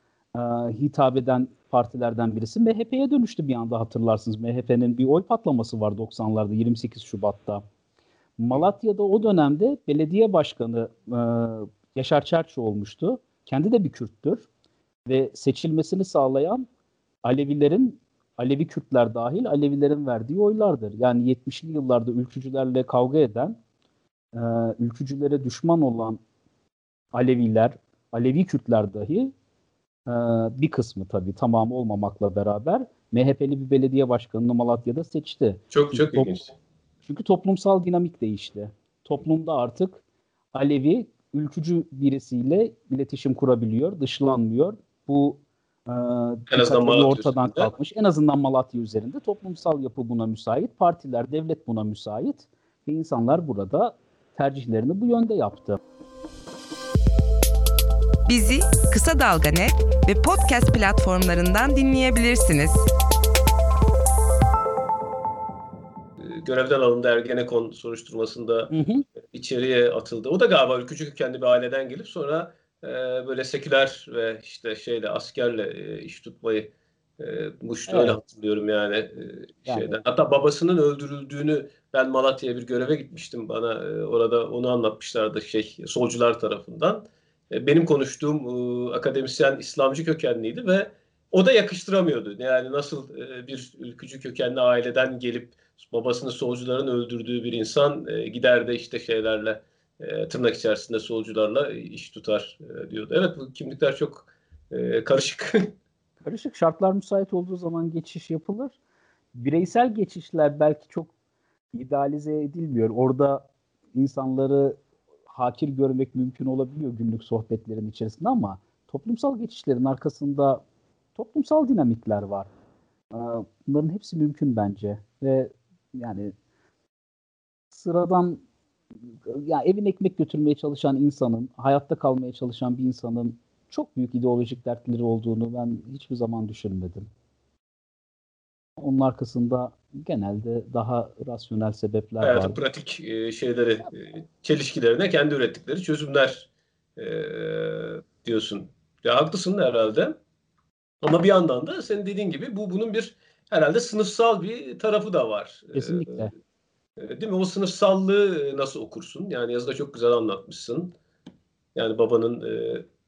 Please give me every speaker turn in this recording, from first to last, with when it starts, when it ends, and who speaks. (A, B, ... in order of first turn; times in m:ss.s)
0:00.3-0:07.6 A
0:08.4-0:14.4 A
0:15.0-0:16.7 A
0:17.2-0:23.6 A
0:24.3-0:26.2 A
0:27.1-0:29.3 A
0:30.1-0:36.5 A
0:35.7-0:36.5 B
0:37.0-0:40.0 A
0:40.5-0:55.8 A
0:46.5-0:47.7 B
0:58.3-1:02.9 C
1:06.2-1:45.7 B
1:08.7-1:09.0 A
1:17.9-1:18.2 A
1:19.7-1:19.9 A
1:46.2-1:48.7 A
1:49.3-1:51.1 A
1:51.7-2:00.6 A
2:01.1-2:02.5 A
2:03.1-2:06.3 A
2:07.7-2:08.4 A
2:09.2-2:17.1 A
2:18.8-2:22.6 A
2:22.2-2:30.2 B
2:31.0-2:36.3 B
2:35.7-2:36.3 A
2:37.0-2:40.9 B
2:41.7-2:42.8 B